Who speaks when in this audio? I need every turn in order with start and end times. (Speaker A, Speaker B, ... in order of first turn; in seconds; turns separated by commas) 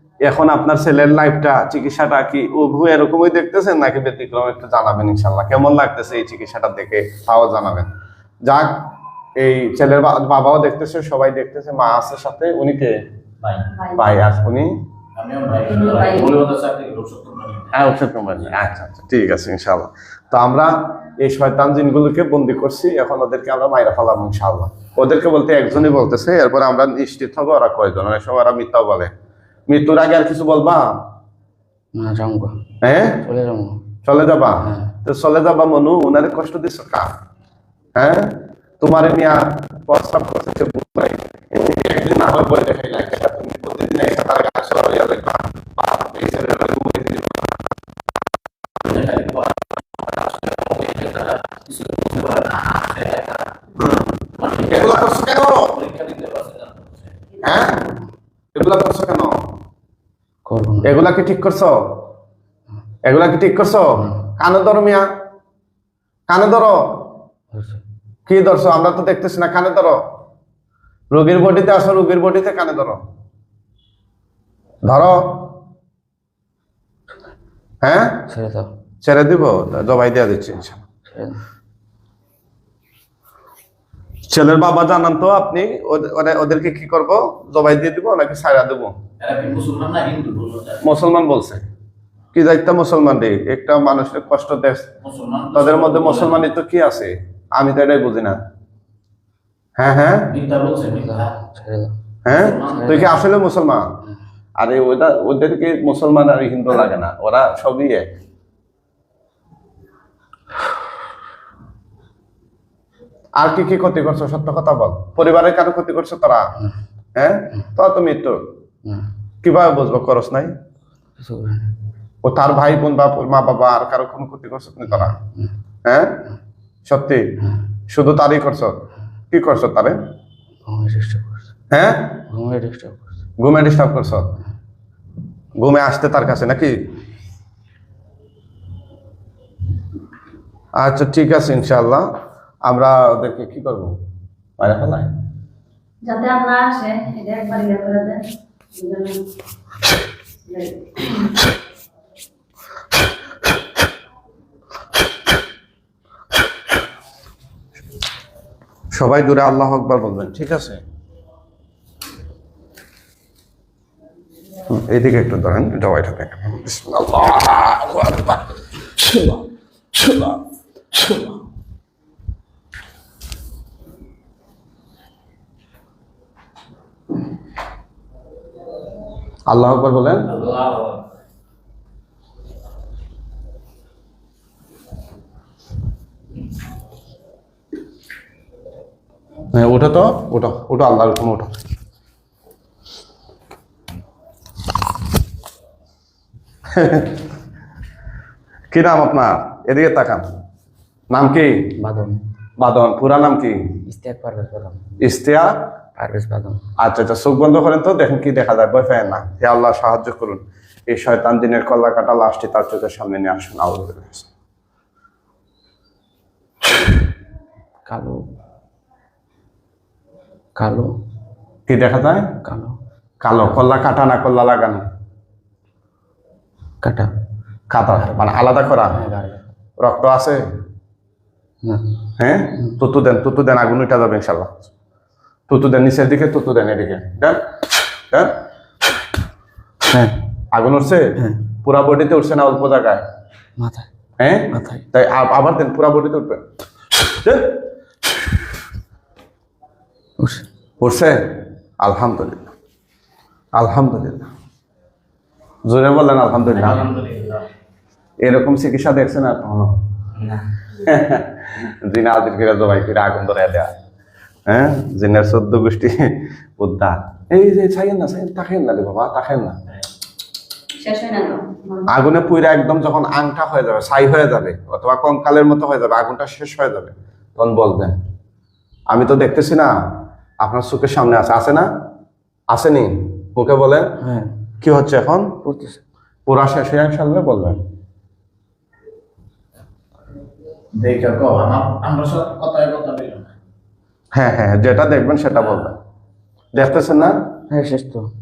Speaker A: 0.2-7.9, Speaker A: 8.4-8.8, Speaker A: 9.4-13.0, Speaker B: 13.4-13.7, Speaker C: 13.8-14.0, Speaker A: 14.0-14.8, Speaker B: 15.2-17.7, Speaker C: 15.6-16.4, Speaker A: 17.7-29.1, Speaker A: 29.7-30.9, Speaker D: 31.9-32.6, Speaker A: 32.8-33.3, Speaker D: 33.2-33.8, Speaker A: 34.0-37.1, Speaker D: 34.6-34.9, Speaker A: 38.0-47.5, Speaker B: 48.9-49.7, Speaker B: 50.3-53.5, Speaker B: 54.4-57.1, Speaker A: 54.6-55.8, Speaker A: 57.4-57.9, Speaker A: 58.5-59.4, Speaker D: 60.5-60.9, Speaker A: 60.8-61.8, Speaker A: 63.0-65.1, Speaker A: 66.3-67.1, Speaker D: 67.5-67.8, Speaker A: 68.3-70.0, Speaker A: 71.1-73.0, Speaker A: 74.8-75.5, Speaker A: 77.8-78.2, Speaker D: 78.3-78.7, Speaker A: 79.0-80.8, Speaker D: 81.1-81.4, Speaker A: 84.3-89.0, Speaker B: 89.2-90.8, Speaker A: 90.8-91.7, Speaker A: 92.3-94.9, Speaker B: 95.0-96.5, Speaker A: 95.5-98.4, Speaker A: 99.8-100.3, Speaker B: 100.3-101.3, Speaker D: 100.9-102.0, Speaker A: 102.2-103.9, Speaker B: 102.4-102.9, Speaker D: 102.6-103.2, Speaker A: 104.6-108.1, Speaker A: 113.4-116.5, Speaker A: 117.2-118.4, Speaker A: 119.4-120.5, Speaker D: 121.2-121.7, Speaker A: 122.2-125.2, Speaker D: 125.0-125.5, Speaker A: 125.8-126.2, Speaker A: 126.9-127.3, Speaker A: 127.9-130.0, Speaker D: 130.7-131.5, Speaker A: 131.7-132.2, Speaker D: 132.3-133.2, Speaker A: 133.4-134.4, Speaker A: 135.6-136.8, Speaker A: 140.8-142.1, Speaker A: 142.7-143.9, Speaker A: 144.6-145.1, Speaker C: 146.0-148.2, Speaker C: 148.7-149.2, Speaker C: 150.5-151.4, Speaker A: 158.9-160.8, Speaker A: 164.7-170.4, Speaker A: 170.9-171.3, Speaker A: 179.5-180.3, Speaker B: 180.3-181.0, Speaker A: 189.5-191.5, Speaker A: 196.7-197.2, Speaker A: 198.7-200.2, Speaker A: 201.1-201.7, Speaker D: 201.8-202.2, Speaker A: 202.6-203.7, Speaker D: 203.9-204.8, Speaker A: 205.0-205.5, Speaker D: 206.0-206.6, Speaker A: 206.8-214.3, Speaker D: 217.9-218.2, Speaker D: 220.6-220.9, Speaker A: 221.7-222.3, Speaker D: 222.4-222.8, Speaker A: 223.2-224.8, Speaker D: 226.8-227.1, Speaker A: 227.7-229.0, Speaker D: 228.9-229.5, Speaker A: 229.8-230.4, Speaker A: 232.2-234.6, Speaker A: 235.5-237.4, Speaker D: 239.9-240.2, Speaker A: 240.5-243.0, Speaker D: 243.6-243.9, Speaker A: 244.2-246.4, Speaker D: 244.5-244.8, Speaker A: 247.1-247.6, Speaker D: 250.2-250.5, Speaker A: 250.8-252.4, Speaker A: 253.6-254.3, Speaker A: 255.7-256.9, Speaker B: 256.6-257.4, Speaker A: 258.2-259.8, Speaker A: 260.8-263.7, Speaker A: 264.5-269.6, Speaker C: 270.8-271.9, Speaker A: 271.9-278.0, Speaker A: 278.9-279.7, Speaker A: 280.4-281.7, Speaker A: 282.5-283.9, Speaker D: 284.0-284.3, Speaker A: 284.6-285.3, Speaker D: 285.4-285.8, Speaker A: 286.3-287.6, Speaker B: 290.8-293.3, Speaker A: 294.1-295.8, Speaker A: 296.6-297.1, Speaker D: 297.5-298.1